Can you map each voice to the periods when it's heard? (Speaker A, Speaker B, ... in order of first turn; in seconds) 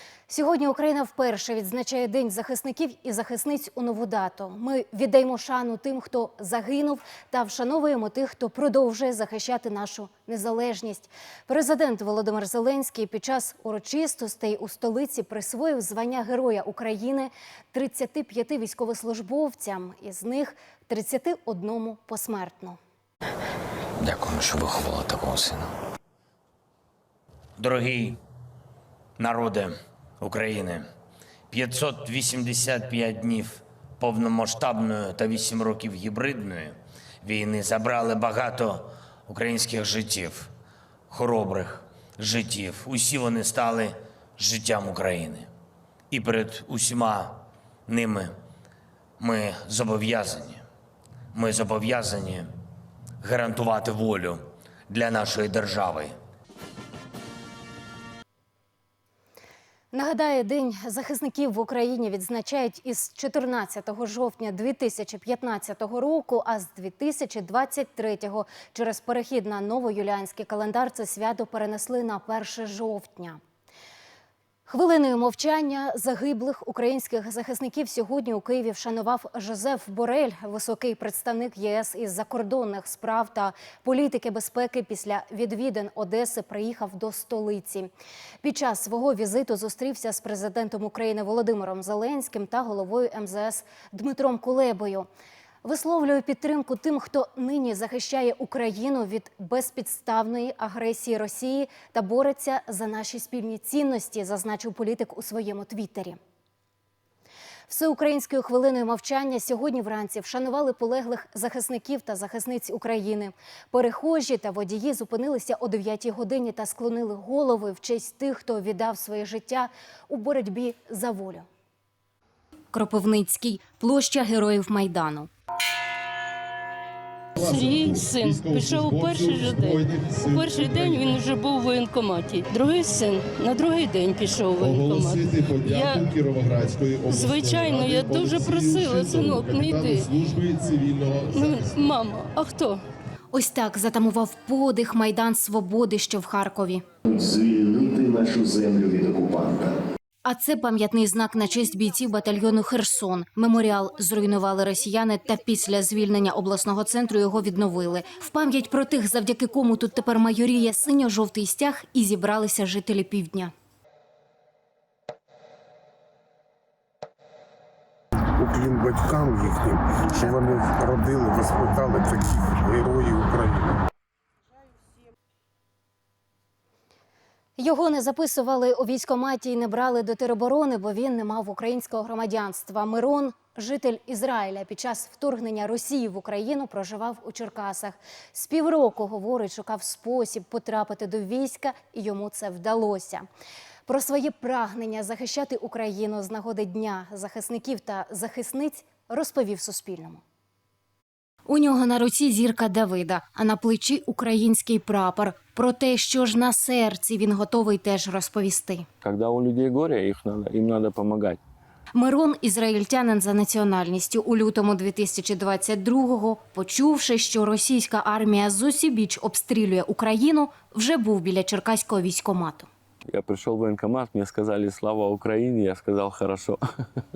Speaker A: 0.3-22.8, 59.9-73.4, 74.7-87.9, 88.4-95.1, 95.6-106.2, 107.7-121.5, 122.7-125.3, 143.3-146.8, 150.2-163.5, 177.6-193.3, 193.9-200.2, 201.5-208.9, 211.9-222.7
Speaker B: 24.0-25.7, 27.6-28.2, 29.2-30.9, 31.5-40.5, 41.1-45.5, 46.1-48.4, 49.2-50.6, 51.3-52.5, 53.2-56.1
Speaker C: 127.4-136.2, 137.1-142.8
Speaker D: 127.5-129.6, 130.4-130.9, 134.7-140.4, 141.0-141.4
Speaker E: 147.1-149.7
Speaker F: 168.4-173.6
Speaker G: 209.0-211.4, 223.1-226.6